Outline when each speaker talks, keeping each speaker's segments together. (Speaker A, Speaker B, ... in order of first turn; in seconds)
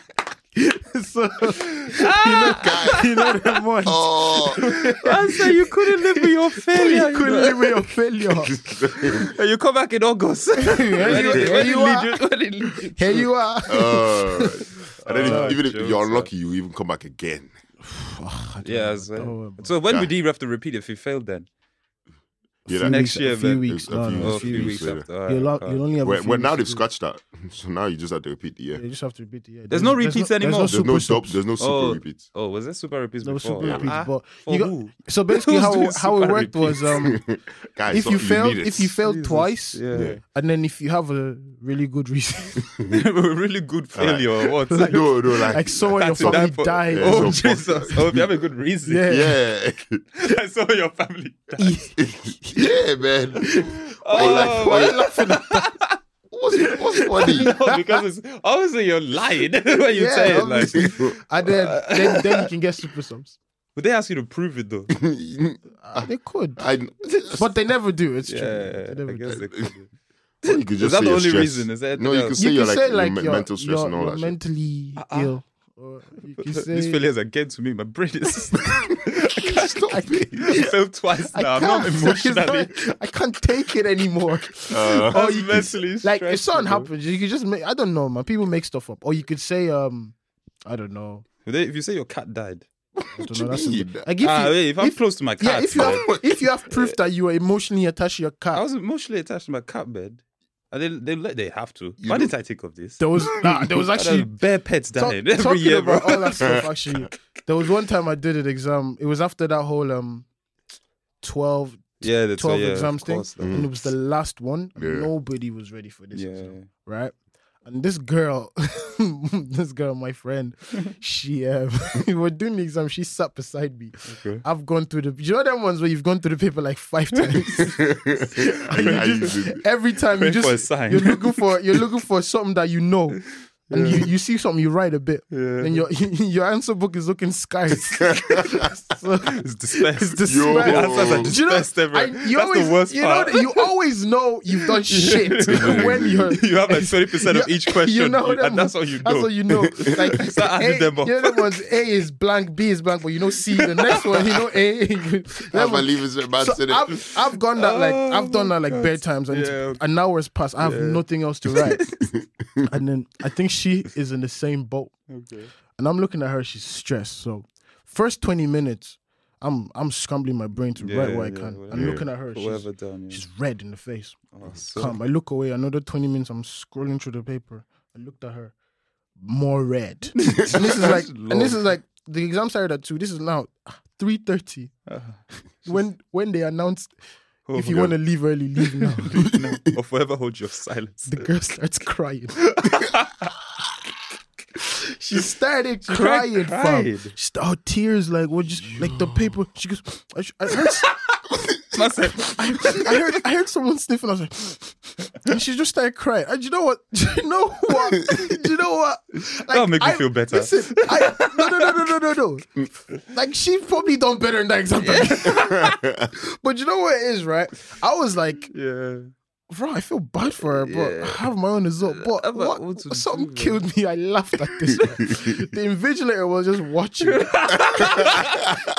Speaker A: 0.6-8.6, 10.6-12.2, 12.9-15.6, 17.8-19.7, 22.7-26.8, 28.8-31.4, 33.2-37.2, 37.9-42.7, 44.7-47.9, 48.9-49.4, 51.6-52.8, 53.4-55.7, 57.2-58.0, 59.9-63.4, 65.8-66.6, 67.4-69.5, 72.4-77.0, 78.4-78.8, 79.9-80.7, 81.3-91.2, 93.2-98.6, 103.0-104.3, 105.0-110.3, 111.2-117.1, 117.7-161.9, 162.7-165.0, 165.8-178.5, 179.2-184.8, 185.6-186.9, 187.5-189.3, 191.1-192.6, 194.6-201.0, 201.7-215.6, 216.1-218.5, 219.5-228.2
Speaker B: 1.8-3.6, 4.6-7.8, 9.0-13.3, 15.0-16.3, 18.6-21.5, 22.8-25.8, 29.7-30.9, 31.6-37.0, 39.0-40.2, 42.9-45.1, 45.9-49.1, 50.2-51.8, 53.9-56.0, 56.6-62.5, 63.8-64.9, 68.3-69.9, 70.5-72.4, 75.0-75.3, 76.4-82.8, 84.9-86.9, 91.5-92.7, 94.2-96.2, 98.5-103.0, 103.9-106.6, 112.0-113.7, 116.1-116.7, 124.1-124.4, 127.2-127.8, 128.5-129.4, 130.2-131.4, 133.7-134.1, 135.3-135.8, 139.2-143.7, 144.6-151.4, 153.5-154.4, 157.0-159.8, 160.6-162.0, 165.1-165.5, 170.8-173.2, 174.3-175.0, 180.2-181.6, 184.9-185.2, 187.5-187.9, 188.6-191.3, 192.4-193.3, 195.8-197.1, 201.7-203.2, 209.3-211.9, 214.8-215.8, 218.5-219.1, 220.6-221.3, 221.9-223.6, 227.0-228.5
Speaker C: 2.6-3.0, 3.8-4.7, 8.5-9.3, 11.0-11.7, 13.7-17.6, 22.7-25.1, 26.0-28.8, 30.7-32.2, 33.6-34.0, 37.0-38.9, 39.9-40.2, 42.7-43.0, 44.0-48.3, 49.1-50.0, 52.0-55.0, 56.3-57.5, 60.7-61.2, 64.9-67.5, 69.3-69.7, 70.4-74.4, 79.5-80.6, 84.7-85.5, 93.0-94.1, 95.8-96.5, 102.0-102.3, 103.2-103.8, 106.4-107.1, 113.4-113.7, 114.8-115.1, 127.5-129.6, 138.0-138.7, 140.2-141.4, 145.5-146.4, 155.5-157.0, 162.1-162.7, 171.7-172.1, 198.8-199.3, 215.3-216.1